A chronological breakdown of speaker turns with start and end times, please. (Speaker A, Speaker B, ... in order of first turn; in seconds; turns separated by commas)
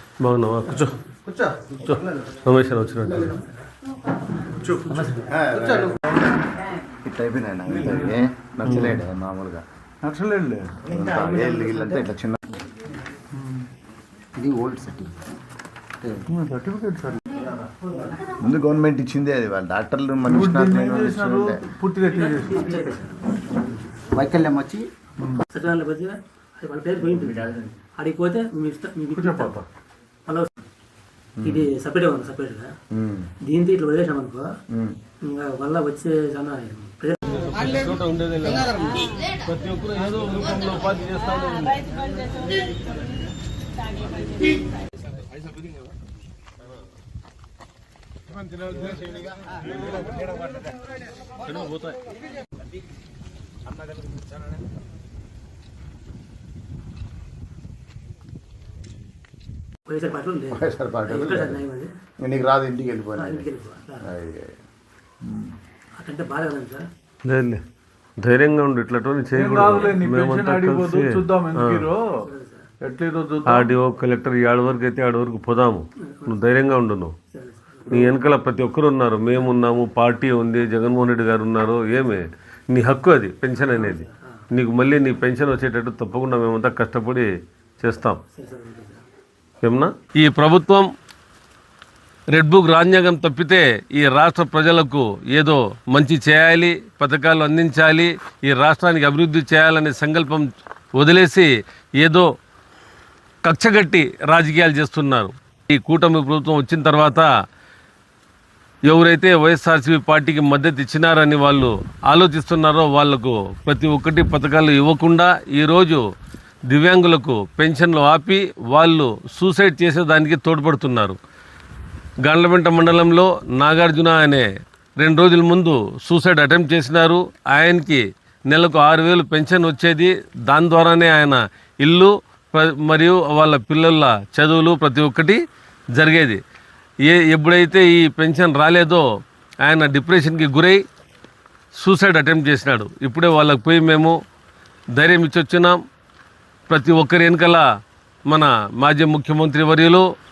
Speaker A: 0.2-0.9, Speaker B: 1.3-1.6, Speaker A: 1.8-3.4, Speaker C: 4.6-5.0, Speaker B: 4.8-5.2, Speaker D: 5.2-6.0, Speaker D: 7.0-9.6, Speaker A: 8.7-9.0, Speaker C: 10.0-10.8, Speaker E: 10.9-11.9, Speaker D: 10.9-12.6, Speaker C: 13.3-13.7, Speaker B: 14.4-15.1, Speaker C: 16.3-17.2, Speaker D: 18.2-21.6, Speaker C: 20.3-22.7, Speaker E: 22.1-23.3, Speaker B: 24.1-24.9, Speaker E: 25.5-29.6, Speaker D: 27.0-27.7, Speaker C: 29.1-29.6, Speaker D: 31.4-31.7, Speaker E: 31.4-32.7, Speaker D: 32.9-33.3, Speaker E: 33.4-34.5, Speaker E: 35.2-37.7, Speaker A: 37.4-42.1, Speaker A: 51.5-52.0, Speaker E: 59.9-61.9, Speaker D: 60.5-61.6, Speaker D: 62.2-63.5, Speaker E: 63.2-64.1, Speaker D: 64.0-64.6, Speaker D: 65.2-65.6, Speaker E: 66.0-66.9, Speaker A: 67.2-67.6, Speaker A: 68.2-71.9, Speaker C: 69.3-72.2, Speaker E: 72.2-72.7, Speaker C: 72.8-73.7, Speaker A: 73.5-77.1, Speaker E: 76.0-76.5, Speaker E: 77.3-78.1, Speaker A: 77.9-87.3, Speaker E: 83.7-84.4, Speaker A: 87.8-88.2, Speaker E: 88.3-89.0, Speaker A: 89.6-90.9, Speaker A: 92.3-101.5, Speaker A: 102.0-102.3, Speaker A: 103.4-107.3, Speaker A: 108.9-116.0, Speaker A: 116.7-121.2, Speaker A: 122.2-124.5, Speaker A: 125.0-135.4, Speaker A: 136.0-136.4, Speaker A: 137.1-139.1, Speaker A: 139.6-140.8, Speaker A: 141.8-144.2, Speaker A: 145.0-145.8, Speaker A: 146.7-147.6, Speaker A: 148.3-150.1